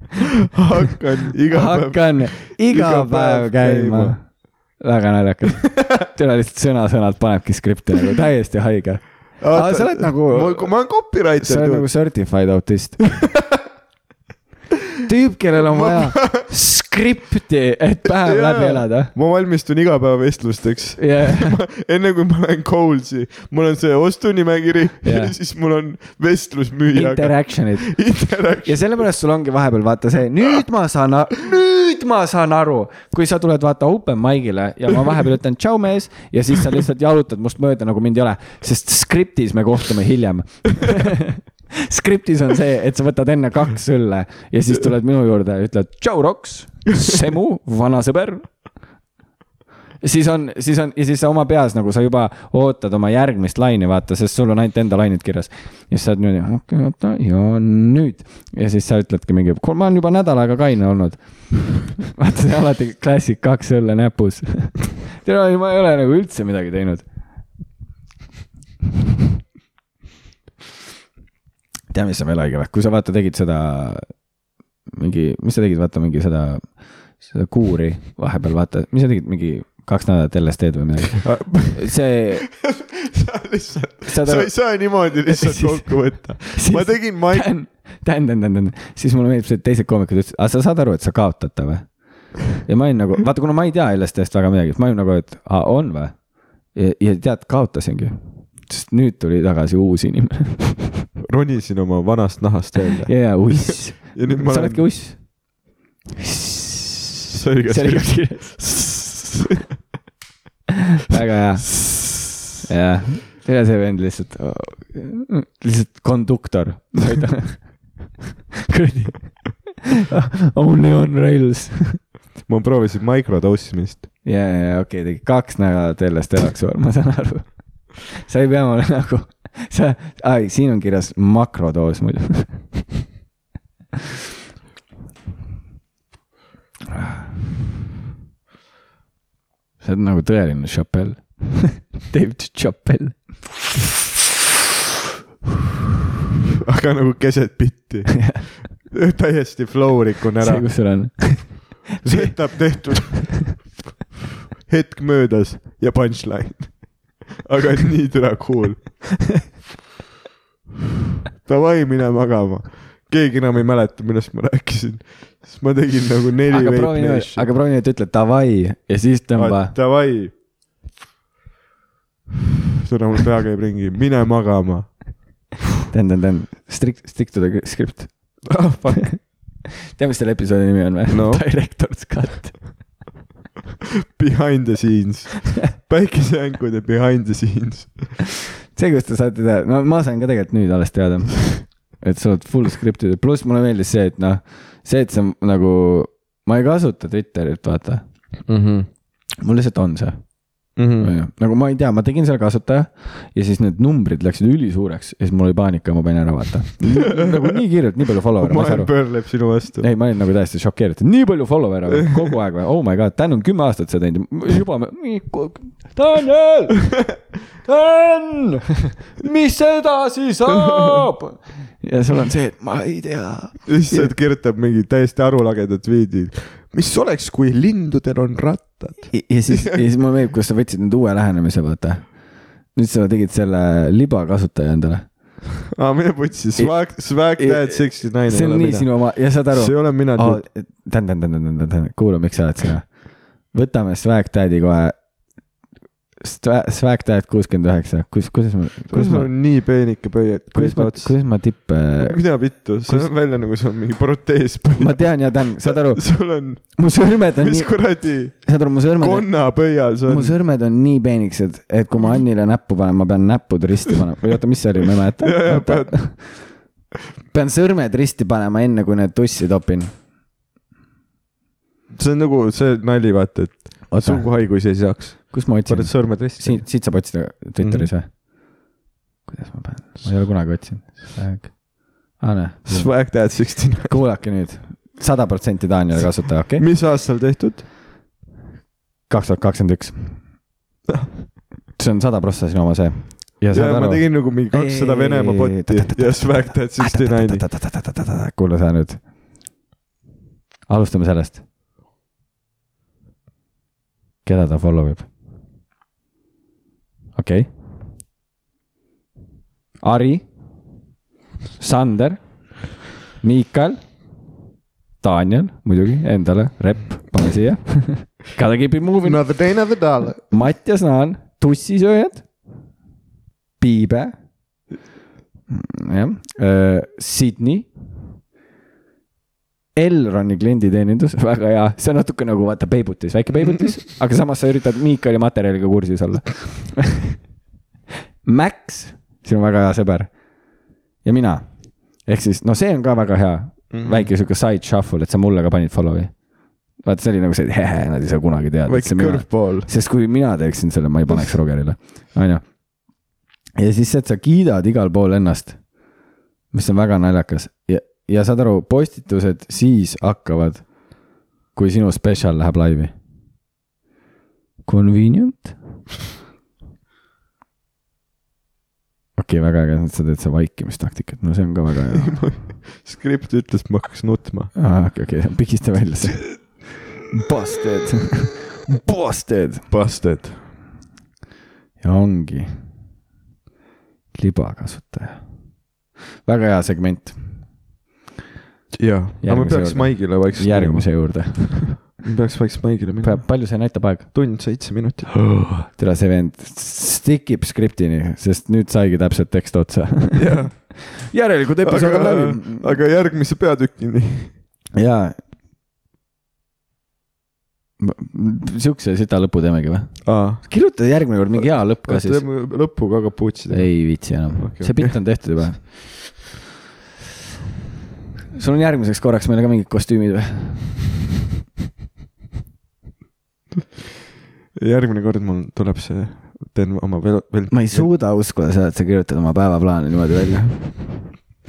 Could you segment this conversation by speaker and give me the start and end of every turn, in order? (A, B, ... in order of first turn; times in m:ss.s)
0:00.5-0:04.2 A
0:01.5-0:10.8 B
0:09.4-0:11.9 A
0:11.4-0:13.0 B
0:13.1-0:13.6 A
0:15.1-0:19.1 B
0:15.7-0:16.5 A
0:18.0-0:29.0 A
0:21.0-0:21.6 B
0:25.0-0:25.4 B
0:26.9-0:28.0 B
0:28.6-0:48.5 B
0:50.0-1:07.0 B
1:11.9-1:14.2 B
1:14.9-1:22.5 B
1:21.2-1:21.9 A
1:22.5-1:27.5 A
1:24.1-1:32.0 B
1:32.5-1:36.2 B
1:36.7-1:41.0 B
1:41.3-1:44.9 A
1:43.1-1:45.3 B
1:46.2-1:47.1 B
1:47.3-1:49.6 A
1:47.6-1:48.7 B
1:51.1-1:52.0 B
1:51.7-1:52.3 A
1:52.7-1:58.0 B
1:58.7-2:02.0 B
2:02.5-2:04.1 A
2:04.2-2:12.7 B
2:16.9-2:17.3 B
2:19.8-2:23.5 B
2:26.6-2:30.7 A
2:28.1-2:28.5 B
2:30.4-2:32.3 B
2:32.0-2:33.7 A
2:34.6-2:39.3 A
2:41.4-2:47.5 A
2:46.5-2:49.7 B
2:49.4-2:50.3 A
2:52.8-2:55.2 A
2:55.9-3:02.8 B
2:58.5-2:59.1 A
3:01.1-3:01.5 A
3:04.2-3:08.2 A
3:08.7-3:18.1 B
3:18.5-3:18.9 A
3:19.4-3:20.4 B
3:20.8-3:21.1 A
3:21.0-3:28.9 B
3:26.9-3:27.6 A
3:28.4-3:29.9 A
3:29.8-3:37.0 B
3:37.6-3:44.1 B
3:40.5-3:41.0 A
3:43.7-3:49.8 A
3:49.1-3:52.1 B
3:52.7-3:55.1 B
3:55.7-4:00.4 A
3:56.6-4:05.0 B
4:06.2-4:09.3 B
4:08.9-4:11.2 A
4:10.5-4:12.2 B
4:12.0-4:16.8 A
4:12.9-4:13.1 B
4:14.8-4:16.1 B
4:16.8-4:17.8 B
4:17.3-4:18.4 A
4:18.3-4:19.3 B
4:19.0-4:20.4 A
4:20.1-4:26.5 B
4:25.2-4:26.2 A
4:27.3-4:29.9 B
4:31.9-4:36.7 A
4:33.9-4:34.3 B
4:35.3-4:38.1 B
4:37.6-4:37.9 A
4:39.3-4:43.3 B
4:42.7-4:44.0 A
4:43.8-4:46.7 B
4:46.6-4:47.7 A
4:49.1-4:50.2 B
4:50.9-4:51.1 A
4:51.8-4:59.0 B
4:53.5-4:57.4 A
5:00.7-5:01.4 B
5:04.2-5:05.1 B
5:07.2-5:07.5 B
5:09.8-5:10.2 B
5:11.6-5:12.2 B
5:13.2-5:13.8 B
5:15.0-5:19.3 B
5:19.0-5:20.2 A
5:20.3-5:22.3 B
5:23.6-5:24.1 B
5:25.5-5:27.7 B
5:29.8-5:37.2 B
5:38.2-5:40.1 B
5:41.0-5:46.2 B
5:43.7-5:44.1 A
5:46.8-5:52.5 B
5:48.7-5:49.7 A
5:53.6-5:55.6 B
5:56.5-6:00.7 B
6:01.5-6:02.9 B
6:04.6-6:05.6 B
6:09.2-6:12.2 B
6:11.9-6:14.5 A
6:14.6-6:19.7 B
6:19.7-6:20.4 A
6:21.8-6:22.5 B
6:24.1-6:25.2 B
6:26.2-6:27.2 B
6:28.7-6:33.3 A
6:29.2-6:31.8 B
6:33.0-6:34.1 B
6:34.1-6:35.2 A
6:35.5-6:42.8 B
6:40.2-6:40.8 A
6:41.6-6:44.3 A
6:44.7-6:45.2 B
6:47.8-6:52.2 B
6:50.0-6:50.4 A
6:51.8-6:53.8 A
6:53.5-6:56.2 B
6:54.4-6:55.0 A
6:58.4-7:00.9 B
7:04.6-7:07.9 A
7:07.5-7:10.9 B